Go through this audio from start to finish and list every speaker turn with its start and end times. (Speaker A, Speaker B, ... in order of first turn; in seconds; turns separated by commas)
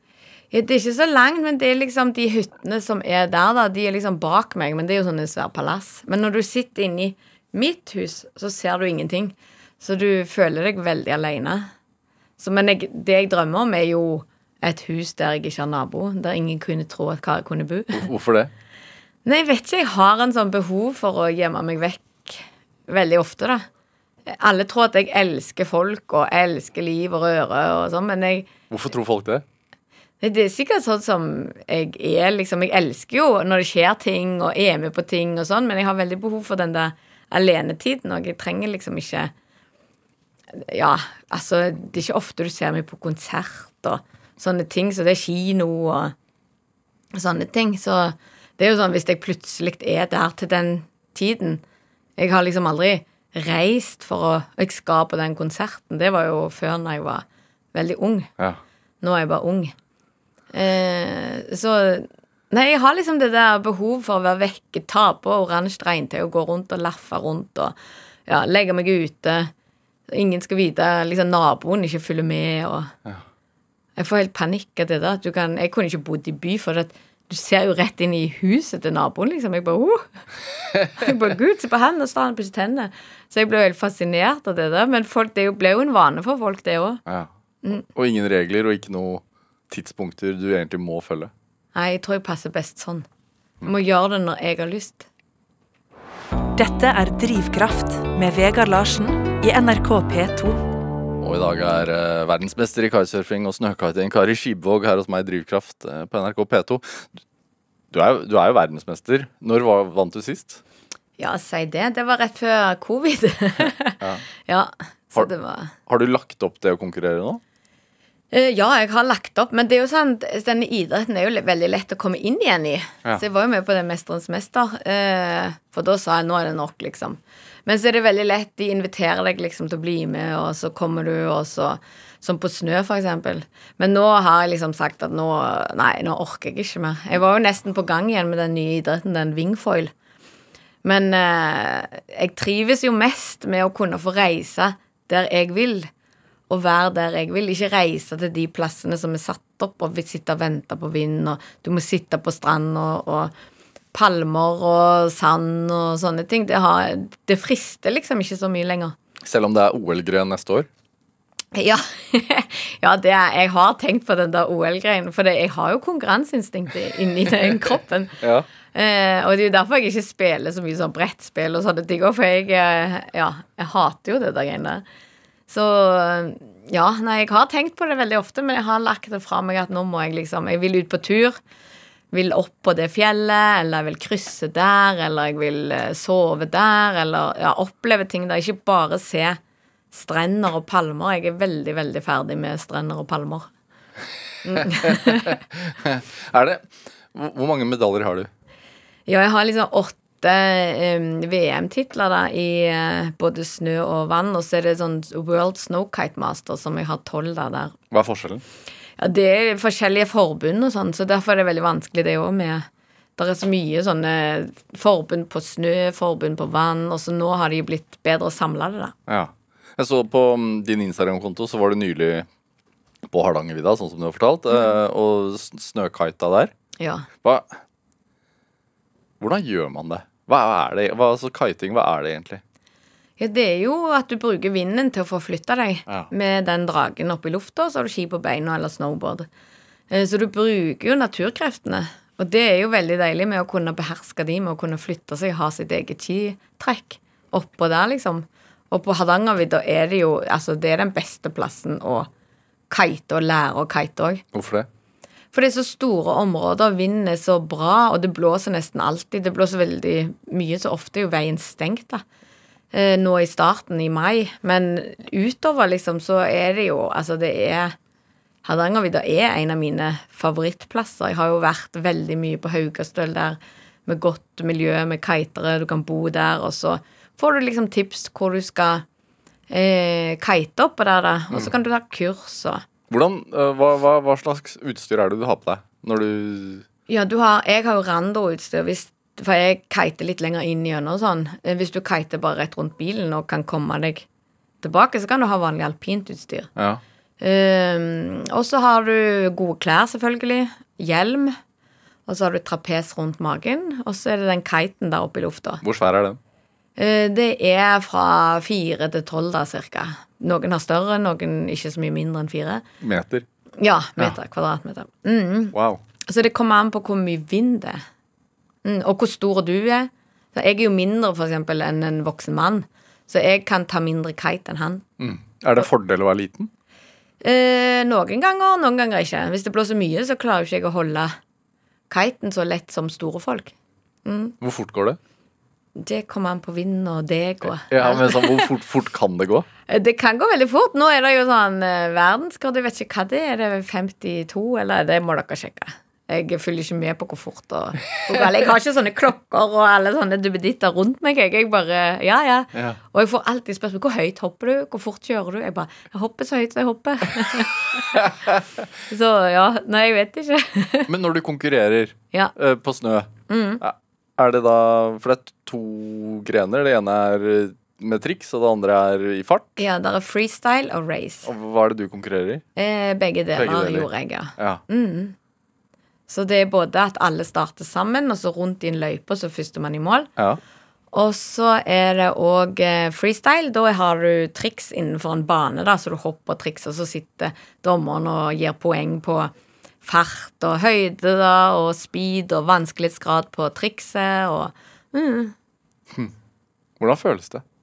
Speaker A: 0.5-11.7, Speaker A: 12.4-18.0, Speaker B: 17.9-18.5, Speaker A: 19.2-23.7, Speaker A: 24.3-28.5, Speaker B: 28.7-29.4, Speaker A: 30.2-39.3, Speaker A: 40.5-46.1, Speaker A: 47.1-51.6, Speaker A: 52.2-58.3, Speaker A: 59.0-59.7, Speaker A: 60.5-67.7, Speaker A: 68.3-69.5, Speaker A: 70.1-72.9, Speaker A: 74.0-80.1, Speaker A: 81.0-87.0, Speaker B: 87.9-91.3, Speaker A: 91.8-93.1, Speaker A: 93.6-95.1, Speaker C: 96.6-100.6, Speaker B: 101.2-107.1, Speaker B: 107.9-110.6, Speaker A: 111.2-115.7, Speaker B: 115.9-117.4, Speaker A: 118.3-139.9, Speaker A: 140.8-145.9, Speaker A: 146.5-153.3, Speaker A: 153.9-158.9, Speaker B: 159.2-160.7, Speaker A: 161.5-168.2, Speaker B: 168.2-168.5, Speaker A: 168.7-174.8, Speaker A: 175.5-181.4, Speaker A: 182.1-189.4, Speaker A: 189.9-193.5, Speaker A: 194.4-195.4, Speaker B: 194.6-198.3, Speaker A: 199.1-207.8, Speaker B: 207.9-208.4, Speaker A: 209.0-218.9, Speaker B: 219.1-222.3, Speaker B: 223.1-226.5, Speaker A: 226.8-227.1, Speaker B: 227.2-227.5, Speaker B: 229.2-232.4, Speaker A: 233.2-239.3, Speaker A: 239.9-252.1, Speaker A: 252.7-254.2, Speaker B: 254.3-254.7, Speaker A: 255.3-262.0, Speaker A: 262.7-267.8, Speaker A: 268.4-278.9, Speaker A: 279.5-282.6, Speaker B: 282.9-286.6, Speaker A: 286.9-294.1, Speaker A: 294.6-296.5, Speaker B: 296.6-296.8, Speaker A: 297.2-301.4, Speaker A: 302.1-305.6, Speaker B: 305.6-306.2, Speaker A: 306.8-312.6, Speaker B: 312.8-313.2, Speaker A: 313.6-315.6, Speaker B: 315.5-315.8, Speaker A: 316.1-317.8, Speaker A: 318.6-324.9, Speaker B: 325.0-326.5, Speaker A: 327.2-331.2, Speaker A: 331.9-333.5, Speaker A: 334.1-334.4, Speaker B: 334.4-335.0, Speaker A: 335.8-338.5, Speaker B: 337.7-339.5, Speaker A: 339.7-358.1, Speaker B: 357.9-358.4, Speaker A: 358.9-360.9, Speaker B: 360.9-369.6, Speaker A: 363.3-363.6, Speaker A: 369.6-371.3, Speaker B: 371.2-372.4, Speaker A: 372.6-375.1, Speaker B: 373.3-374.6, Speaker A: 376.1-380.1, Speaker A: 380.9-389.3, Speaker A: 389.8-395.3, Speaker B: 396.8-397.4